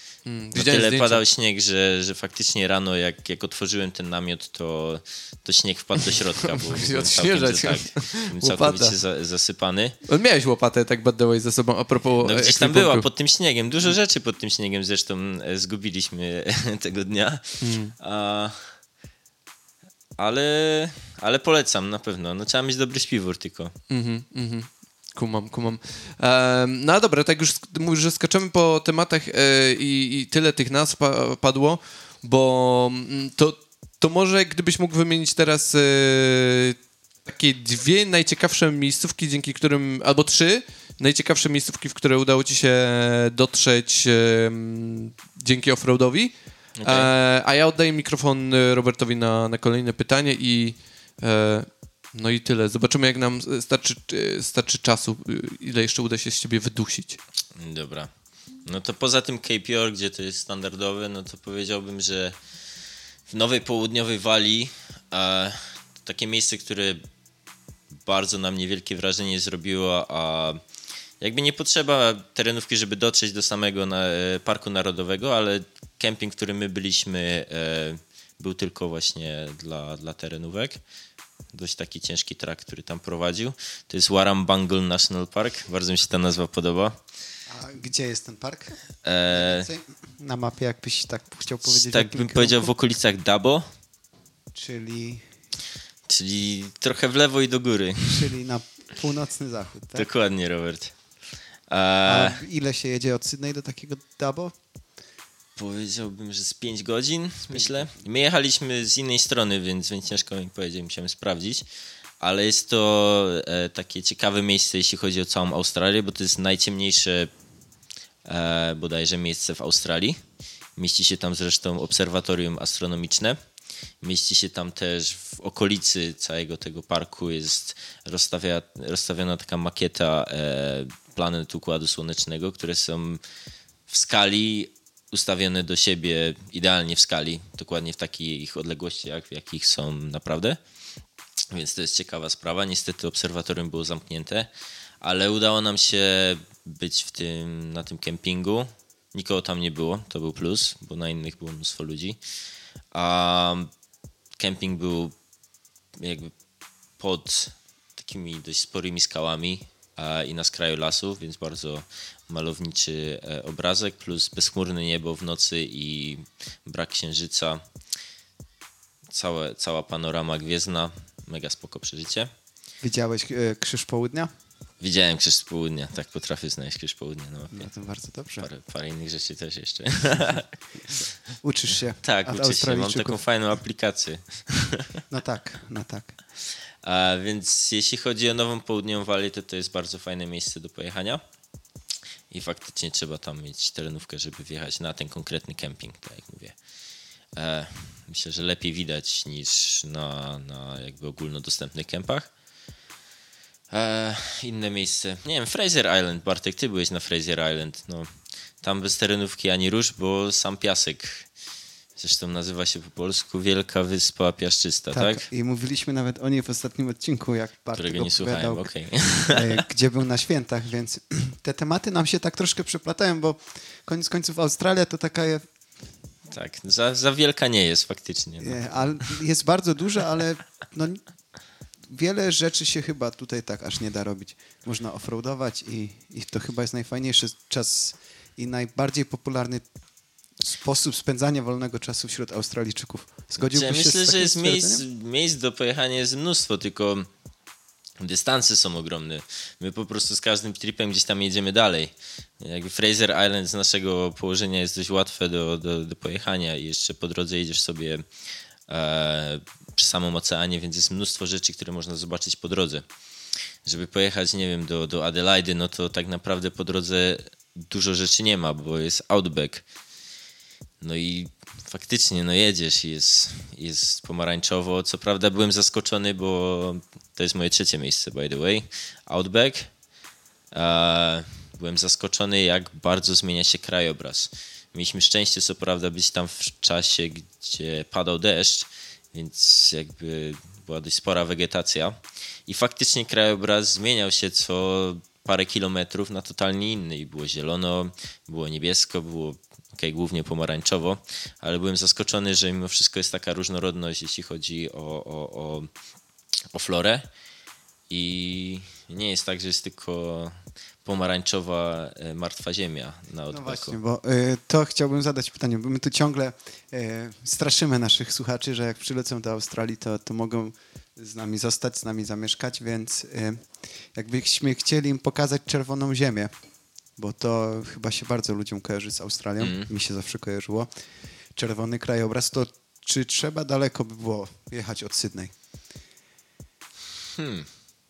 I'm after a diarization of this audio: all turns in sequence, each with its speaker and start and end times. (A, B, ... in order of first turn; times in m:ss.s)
0:00.2-0:01.2 A
0:00.5-0:10.0 B
0:06.5-0:09.0 A
0:10.0-0:13.0 A
0:12.2-0:18.7 B
0:17.6-0:17.9 A
0:20.2-0:23.7 B
0:23.9-0:57.2 A
0:46.8-0:47.1 B
0:57.6-0:58.1 B
0:58.6-1:02.4 B
1:03.3-1:07.0 B
1:08.0-1:10.6 B
1:11.2-1:20.8 B
1:21.5-1:27.0 B
1:27.5-1:28.8 C
1:29.0-1:29.7 B
1:29.3-1:32.7 C
1:31.6-1:33.6 B
1:34.5-1:35.3 C
1:36.1-1:38.3 B
1:38.1-1:40.1 C
1:39.9-1:40.9 B
1:41.7-1:42.4 B
1:42.0-1:44.5 C
1:45.6-1:51.6 B
1:47.5-1:47.9 C
1:52.2-1:57.3 B
1:58.2-2:00.2 B
2:00.8-2:03.4 B
2:04.0-2:13.2 B
2:13.9-2:20.6 B
2:21.5-2:24.5 B
2:25.0-2:32.2 B
2:32.9-2:33.7 B
2:34.4-2:35.1 B
2:36.0-2:36.3 B
2:37.0-2:47.6 B
2:49.1-2:52.3 B
2:52.8-2:54.3 C
2:54.8-2:57.7 B
2:57.5-2:58.5 C
2:58.4-3:00.5 B
3:01.4-3:03.2 C
3:02.0-3:05.0 B
3:05.1-3:06.1 C
3:06.8-3:11.2 B
3:12.3-3:16.5 B
3:17.3-3:22.3 B
3:23.7-3:28.1 B
3:28.6-3:31.3 B
3:32.0-3:35.2 B
3:34.9-3:38.7 C
3:37.8-3:39.6 B
3:39.3-3:45.4 C
3:46.3-3:49.1 B
3:48.4-3:51.0 C
3:51.9-3:59.6 C
4:00.4-4:04.8 C
4:03.4-4:07.1 B
4:08.0-4:18.0 B
4:18.7-4:22.8 B
4:23.6-4:29.6 B
4:30.8-4:39.7 B
4:40.5-4:52.0 B
4:52.5-5:05.7 B
5:06.5-5:07.1 B
5:07.9-5:13.8 B
5:13.3-5:26.3 C
5:27.0-5:30.7 C
5:29.4-5:29.7 B
5:31.3-5:35.3 C
5:37.2-5:37.5 B